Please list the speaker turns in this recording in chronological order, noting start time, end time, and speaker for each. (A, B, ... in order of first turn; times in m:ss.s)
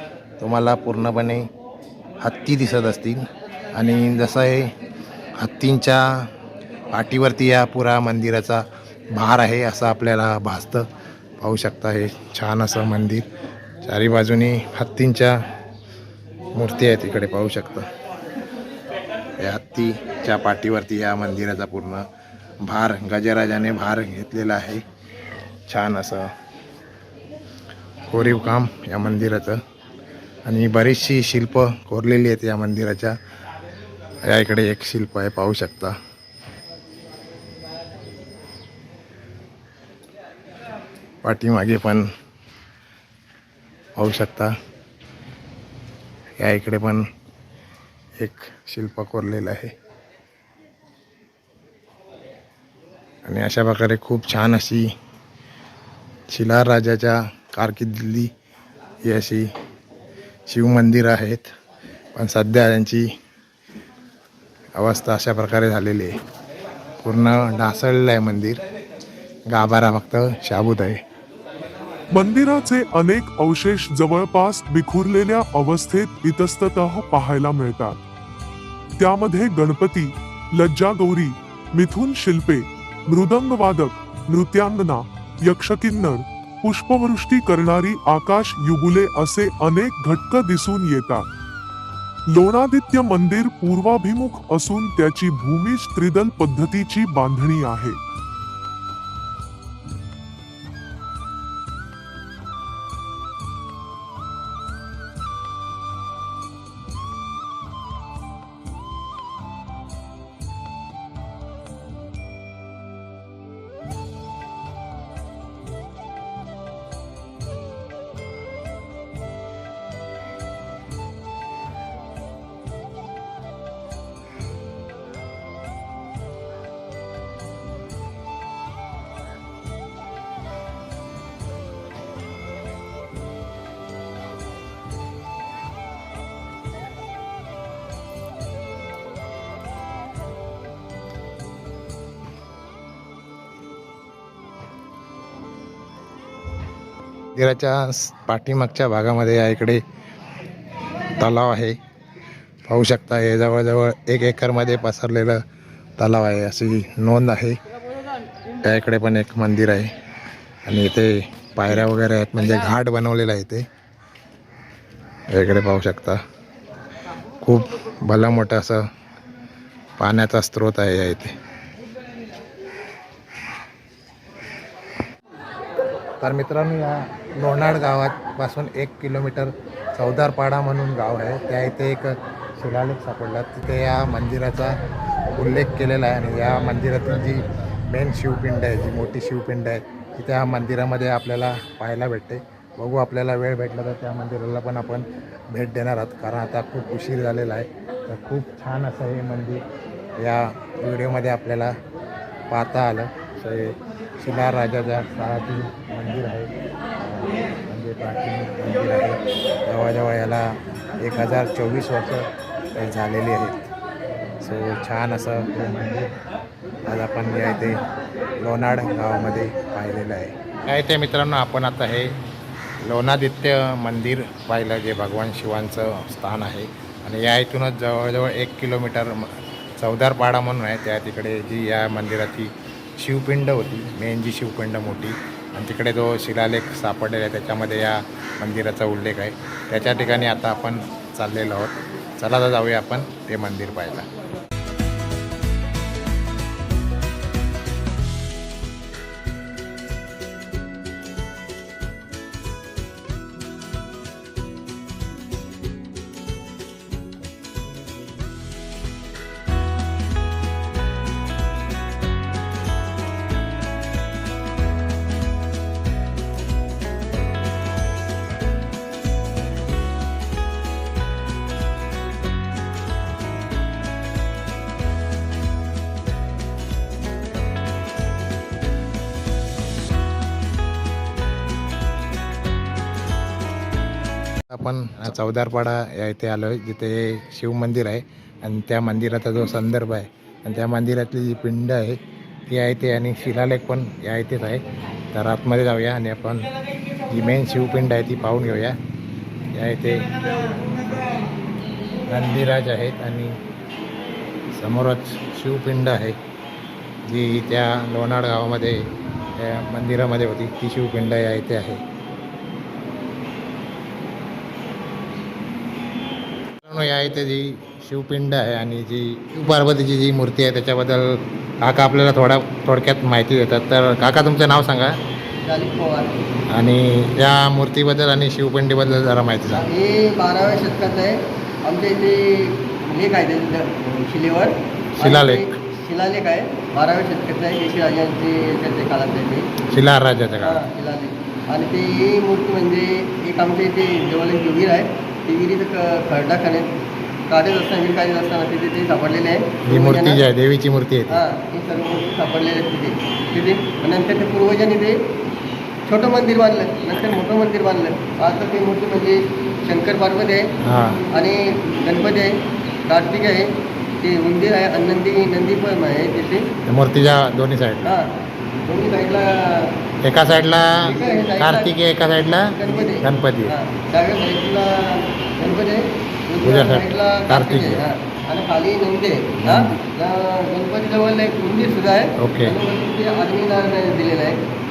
0:00.4-0:01.5 A
0:02.2-0:03.2 A
0:03.7-0:04.7 A
0:05.4-0:06.3 A
0:06.9-0:10.9 A
0:11.4-0:13.3 A
0:13.8-0:15.4 A
0:16.5-0:17.9 A
0:19.4-0:22.0 A
0:22.6-0:24.8 A
0:25.7-0:26.3 A
0:28.1-0:29.6 A
0:30.5-0:33.2 A
0:34.3-0:36.0 A
0:41.2-0:42.1 A
0:44.0-0:44.5 A
0:46.4-0:47.0 A
0:48.2-0:49.7 A
0:53.3-0:54.9 A
0:56.3-0:58.3 A
0:59.0-0:59.5 A
1:00.5-1:01.5 A
1:02.2-1:03.1 A
1:04.8-1:06.1 A
1:07.0-1:08.6 A
1:09.5-1:11.0 A
1:12.1-1:18.0 B
1:19.0-1:31.2 B
1:32.3-1:38.0 B
2:27.4-2:29.8 A
2:31.2-2:31.8 A
2:32.7-2:35.4 A
2:36.0-2:37.6 A
2:38.6-2:39.9 A
2:40.7-2:43.7 A
2:45.3-2:46.2 A
2:47.4-2:48.8 A
2:50.0-2:51.4 A
2:56.2-3:04.8 A
3:05.3-3:19.6 A
3:20.2-3:21.8 A
3:22.5-3:33.7 A
3:34.4-3:36.2 A
3:36.9-3:37.8 A
3:38.4-3:42.1 A
3:42.8-4:04.1 A
4:44.5-4:56.5 A
4:57.1-4:58.8 A
4:59.6-5:00.1 A
5:02.1-5:03.4 A
5:04.6-5:06.2 A
5:07.1-5:08.8 A
5:09.4-5:11.8 A
5:16.6-5:24.9 A
5:25.4-5:26.1 C
5:26.5-5:29.6 A
5:29.5-5:39.5 C
5:35.0-5:35.6 A
5:39.7-5:40.6 A
5:40.4-5:46.7 C
5:47.3-5:50.2 C
5:49.7-5:51.2 A
5:51.1-5:55.0 C
5:55.9-6:00.5 C
6:00.6-6:01.0 A
6:01.1-6:06.5 C
6:06.7-6:07.9 A
6:07.8-6:08.1 C
6:08.7-6:09.8 C
6:10.0-6:13.6 A
6:10.8-6:11.7 C
6:12.4-6:24.4 C
6:16.4-6:17.9 A
6:19.4-6:19.8 A
6:22.2-6:22.6 A